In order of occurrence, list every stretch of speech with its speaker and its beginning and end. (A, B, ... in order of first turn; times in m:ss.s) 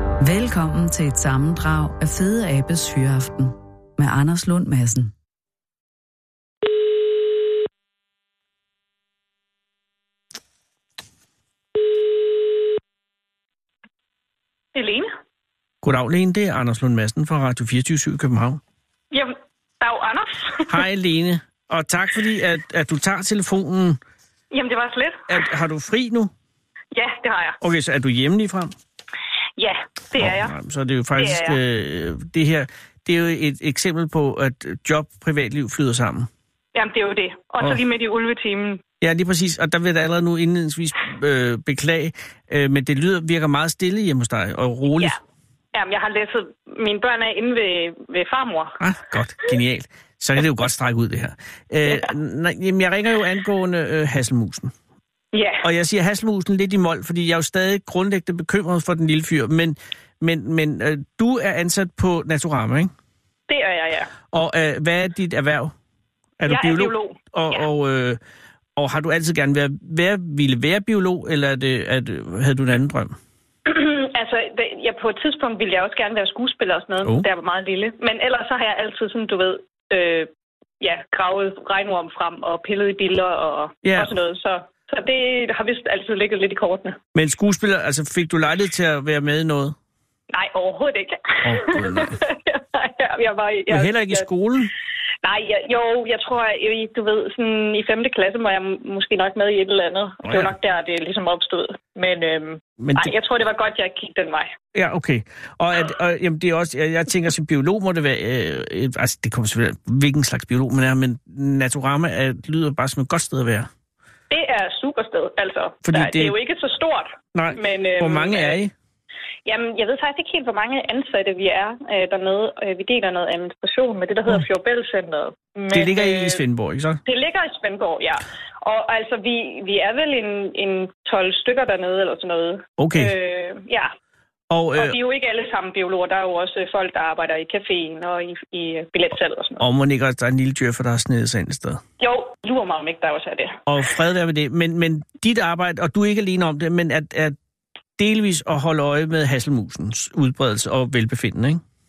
0:00.2-0:05.1 A
0:14.8-0:15.1 B
0:15.8-0:18.6 C
0:19.1-0:20.8 B
0:20.7-0:24.0 C
0:24.5-0:25.4 B
0:25.3-0:26.3 C
0:26.9-0:27.6 B
0:27.6-0:28.7 C
0:29.6-0:30.6 B
0:30.2-0:36.3 C
0:31.2-0:31.6 B
0:36.8-0:38.8 B
0:39.0-0:45.2 C
0:45.7-0:48.8 B
0:48.8-0:54.7 C
0:55.3-0:55.7 B
0:55.6-1:02.9 C
1:03.5-1:04.1 B
1:04.3-1:05.7 C
1:06.4-1:08.2 C
1:06.5-1:07.7 B
1:08.8-1:13.2 C
1:13.7-1:20.3 B
1:20.8-1:27.0 B
1:23.8-1:24.1 C
1:27.1-1:29.8 C
1:30.3-1:34.3 B
1:31.4-1:32.2 C
1:33.7-1:34.7 C
1:35.2-1:44.5 B
1:40.2-1:40.5 C
1:42.8-1:43.1 C
1:44.7-1:53.7 C
1:54.3-1:58.6 B
1:55.8-1:56.3 C
1:57.3-1:58.7 C
1:59.5-2:06.4 B
2:05.7-2:07.0 C
2:07.1-2:13.9 B
2:12.8-2:13.1 C
2:14.5-2:15.0 C
2:14.8-2:19.6 B
2:19.6-2:21.8 C
2:22.0-2:23.6 B
2:23.7-2:27.4 C
2:28.0-2:31.6 C